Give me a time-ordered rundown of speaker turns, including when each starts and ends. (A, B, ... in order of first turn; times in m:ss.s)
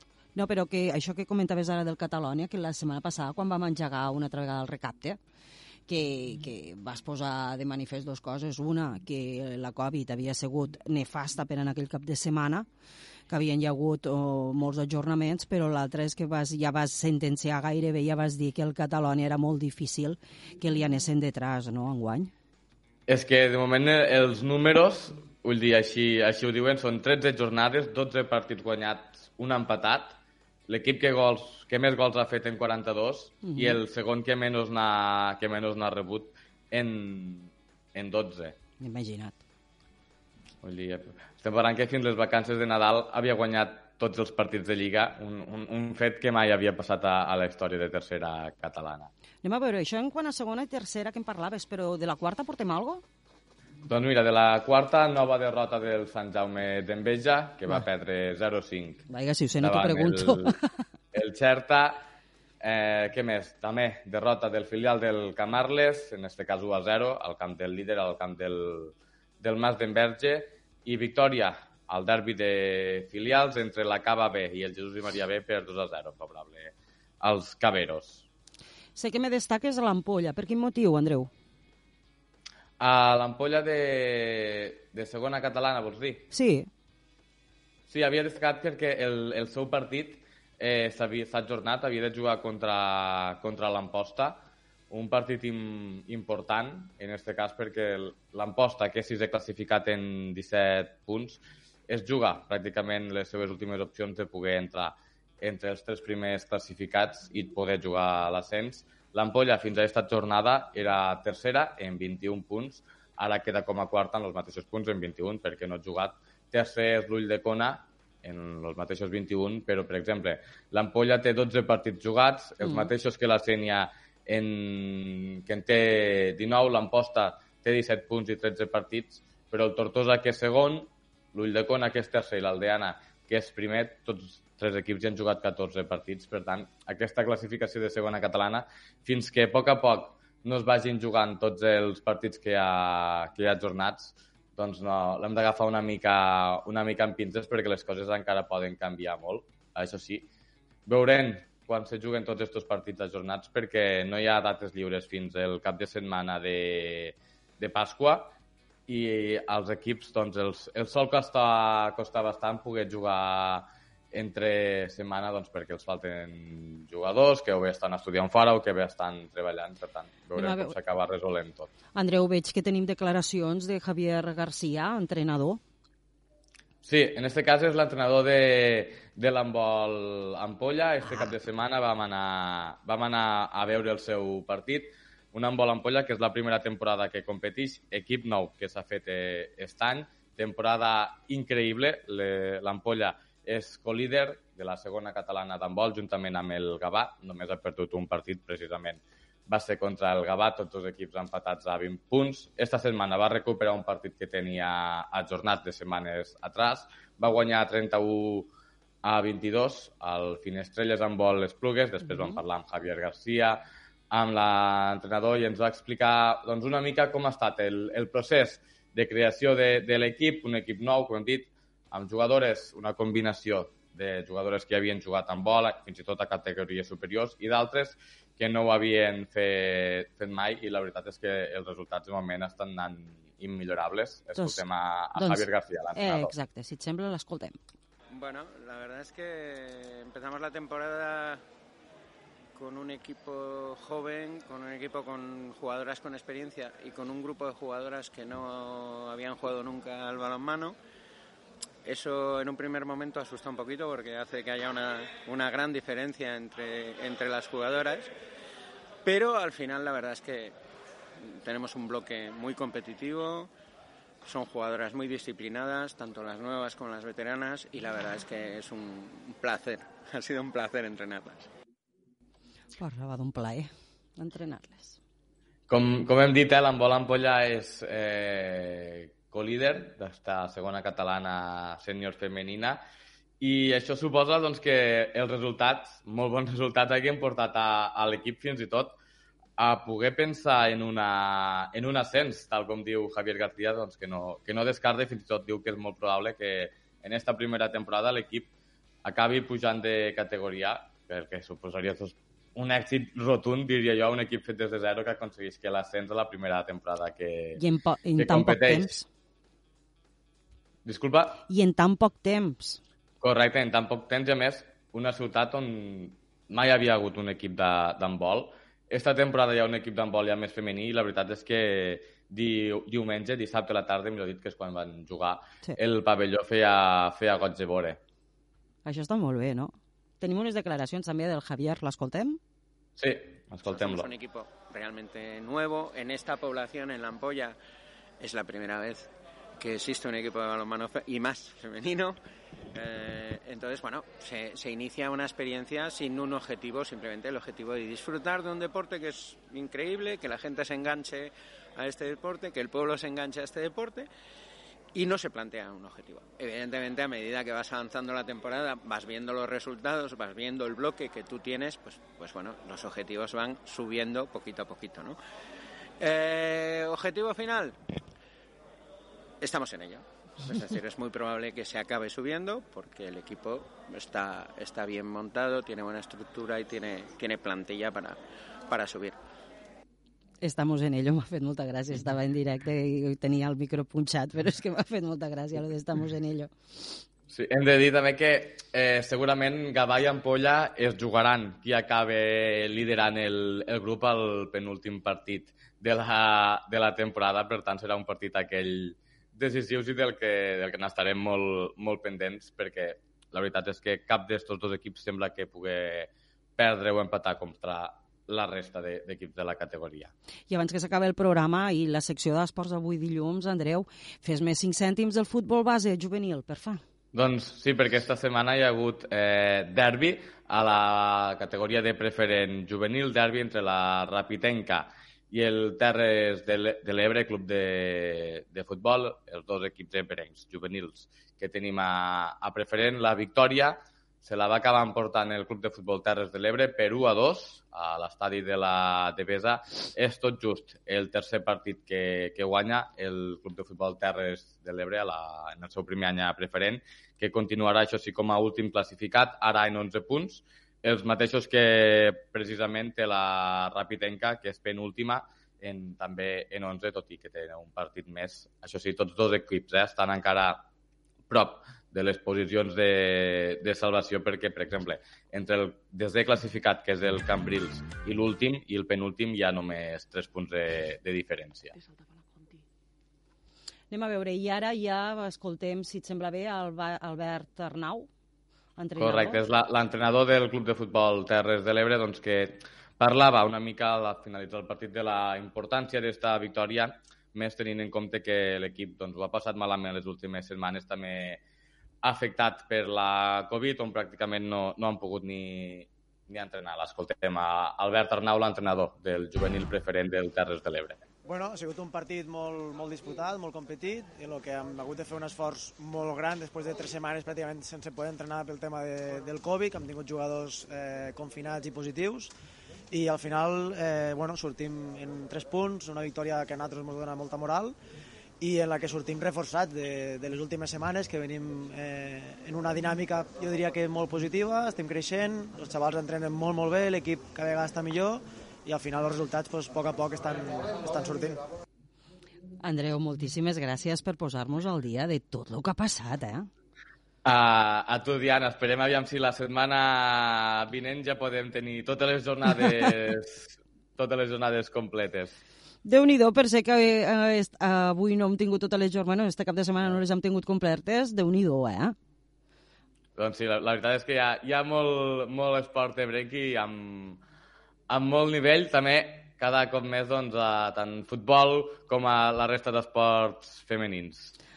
0:00.3-0:05.2 A
0:05.9-0:12.7 A
0:13.3-0:22.3 A
0:23.1-0:38.6 B
0:33.4-0:33.8 A
0:38.8-0:39.4 A
0:40.6-0:49.1 B
0:49.4-0:53.0 A
0:53.8-0:59.0 B
0:59.1-1:00.6 A
0:59.6-1:00.5 B
1:01.1-1:02.0 B
1:02.6-1:18.2 B
1:19.0-1:21.3 A
1:22.8-1:26.3 B
1:26.3-1:26.7 A
1:27.9-2:30.3 B
2:30.8-2:38.3 B
2:38.9-2:51.7 B
2:50.4-2:50.7 A
2:51.9-2:55.6 A
2:56.8-3:28.5 B
3:29.0-3:56.3 B
3:54.4-3:54.6 A
3:55.1-3:57.6 A
3:58.1-4:01.4 C
4:02.5-4:10.8 C
4:11.8-4:18.1 C
4:19.0-4:20.5 C
4:21.2-4:23.5 C
4:24.2-4:31.5 C
4:32.8-4:35.0 A
4:35.7-4:42.8 B
4:43.4-4:48.9 B
4:49.6-4:58.5 B
4:59.0-5:07.6 B
5:07.6-5:09.1 A
5:08.2-5:09.0 B
5:10.8-5:11.4 B
5:11.5-5:12.8 A
5:13.2-5:28.0 B
5:28.8-5:32.4 A
5:33.0-5:34.1 B
5:33.7-5:37.6 C
5:38.2-5:42.2 C
5:42.7-5:54.1 C
5:54.9-6:05.2 C
6:06.0-6:07.8 C
6:09.4-6:19.2 C
6:20.4-6:26.9 A
6:27.3-6:50.1 B
6:50.5-6:56.8 A
6:57.1-7:40.6 B
7:41.3-7:51.7 B
7:53.9-7:58.1 A
7:58.8-7:59.4 A
7:59.0-8:11.4 B
8:12.0-8:21.0 B
8:21.2-8:32.3 D
8:32.9-8:37.7 D
8:38.4-8:51.4 D
8:52.6-8:56.5 A
8:57.2-9:05.4 B
9:05.8-9:11.9 A
9:13.2-9:17.2 B
9:17.9-9:24.3 B